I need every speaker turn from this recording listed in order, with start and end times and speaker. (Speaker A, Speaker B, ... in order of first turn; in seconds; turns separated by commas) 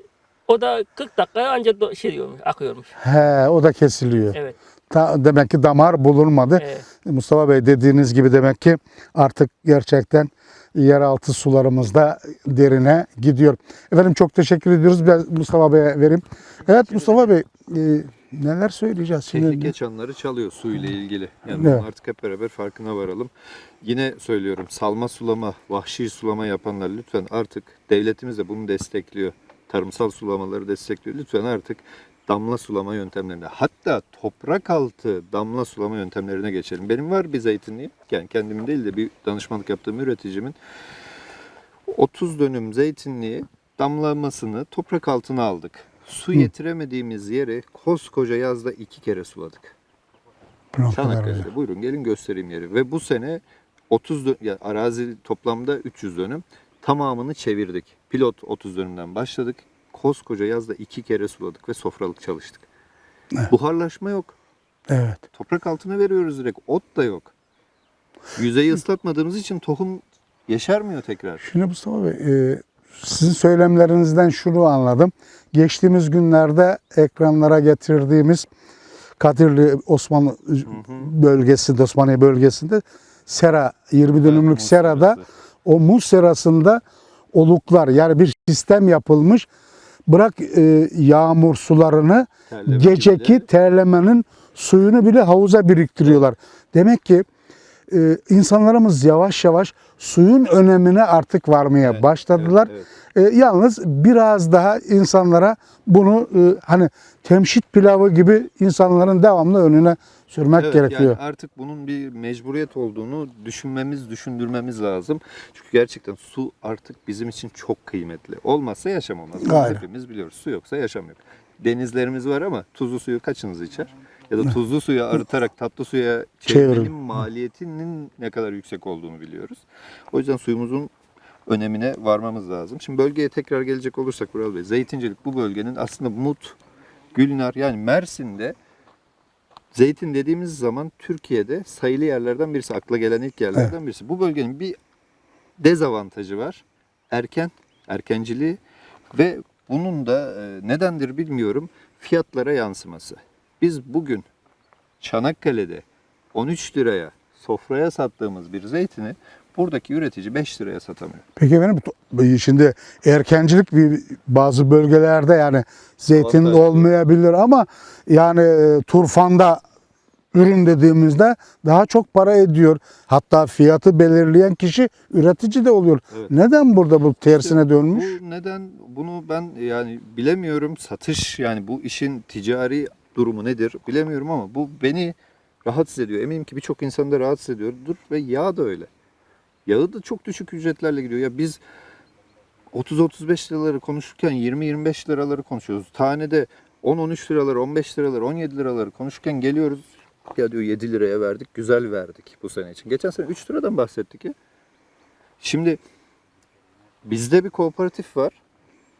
Speaker A: 0.5-2.9, Speaker B: 3.0-4.4, Speaker B: 4.9-19.7, Speaker A: 6.6-6.9, Speaker A: 16.7-17.2, Speaker C: 19.3-23.3, Speaker B: 21.5-21.9, Speaker C: 23.8-40.6, Speaker C: 41.9-49.7, Speaker B: 50.8-51.5, Speaker C: 50.9-62.7, Speaker C: 63.5-64.3, Speaker B: 64.9-65.2, Speaker C: 65.3-67.3, Speaker C: 68.3-71.4, Speaker B: 71.4-78.5, Speaker B: 79.2-86.8, Speaker C: 80.7-81.1, Speaker C: 84.2-85.3, Speaker B: 87.3-89.5, Speaker B: 90.1-97.2, Speaker C: 92.5-93.5, Speaker B: 97.9-111.2, Speaker C: 101.8-102.9, Speaker C: 110.6-130.9, Speaker B: 119.4-119.8, Speaker B: 126.5-126.9, Speaker C: 131.5-136.6, Speaker C: 137.1-138.6, Speaker C: 139.7-144.8, Speaker C: 145.6-148.6, Speaker C: 149.1-154.3, Speaker C: 155.0-161.2, Speaker B: 161.4-169.6, Speaker C: 166.1-166.9, Speaker B: 170.3-178.2, Speaker C: 176.1-176.4, Speaker C: 177.3-188.9, Speaker C: 189.7-191.6, Speaker C: 192.7-204.3, Speaker C: 205.4-205.8, Speaker C: 207.0-208.4